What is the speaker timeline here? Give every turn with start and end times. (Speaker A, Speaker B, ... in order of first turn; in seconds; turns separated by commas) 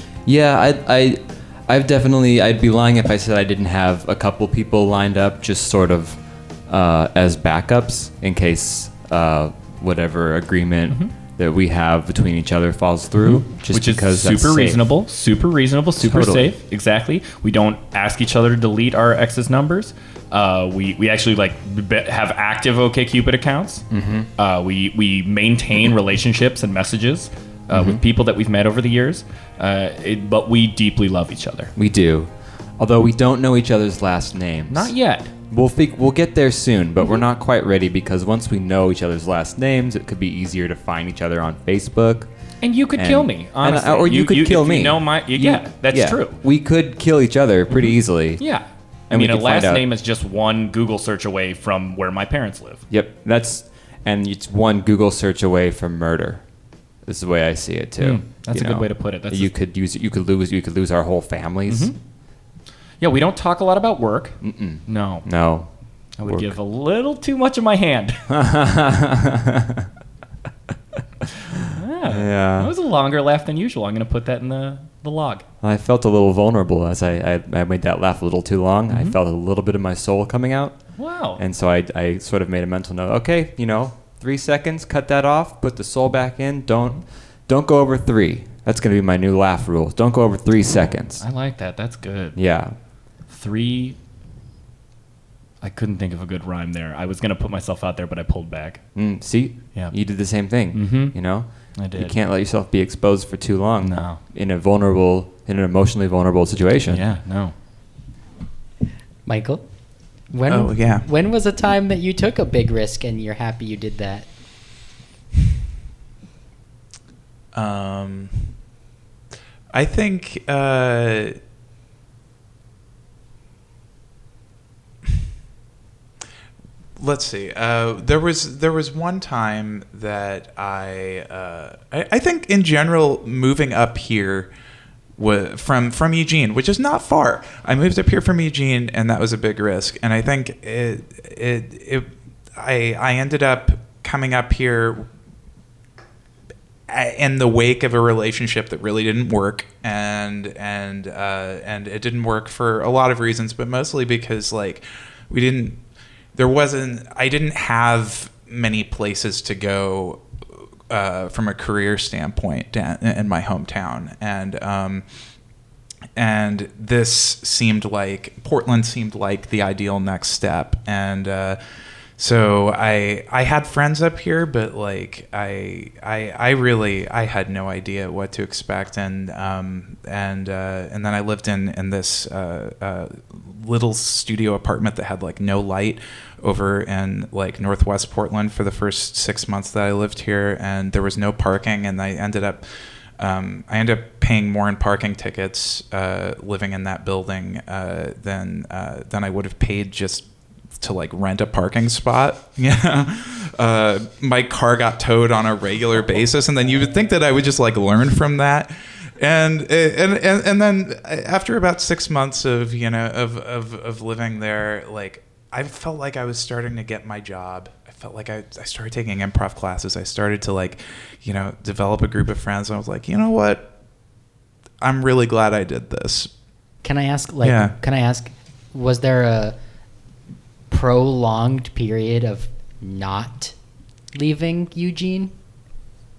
Speaker A: 0.3-14.9, Speaker B: 13.2-23.9, Speaker A: 16.0-16.5, Speaker A: 23.9-24.3, Speaker B: 24.4-31.7, Speaker A: 27.7-28.0, Speaker A: 31.8-35.0, Speaker B: 34.7-35.3, Speaker A: 35.5-42.3, Speaker B: 42.6-46.4, Speaker A: 42.9-48.4, Speaker B: 47.7-52.9, Speaker A: 49.1-49.9, Speaker A: 52.9-56.4, Speaker A: 57.1-61.9, Speaker B: 58.0-59.5, Speaker B: 61.7-62.0, Speaker B: 63.0-65.3, Speaker A: 64.4-65.7, Speaker B: 66.2-68.2, Speaker A: 66.2-66.5, Speaker A: 68.3-69.9, Speaker A: 71.5-72.7, Speaker B: 71.7-75.5, Speaker A: 75.6-80.8, Speaker B: 78.9-79.2, Speaker B: 81.0-81.4, Speaker A: 81.3-91.2, Speaker B: 91.2-92.4, Speaker A: 92.3-92.8, Speaker B: 93.3-94.0, Speaker B: 95.6-98.9, Speaker A: 99.0-107.0, Speaker B: 100.7-101.2, Speaker B: 101.8-102.2, Speaker B: 103.8-104.2, Speaker B: 106.9-107.5, Speaker C: 109.3-109.6, Speaker C: 110.3-114.3, Speaker D: 110.5-111.0, Speaker D: 117.5-118.5, Speaker D: 119.7-121.4, Speaker D: 127.0-134.5, Speaker D: 135.2-145.1, Speaker D: 146.9-155.8, Speaker D: 156.3-160.2, Speaker D: 160.9-165.1, Speaker D: 166.2-171.6, Speaker D: 172.2-192.7, Speaker D: 193.2-200.3, Speaker D: 200.8-223.7, Speaker D: 224.8-226.3, Speaker C: 226.8-229.6, Speaker D: 227.4-227.7, Speaker C: 230.7-233.6, Speaker C: 234.1-235.3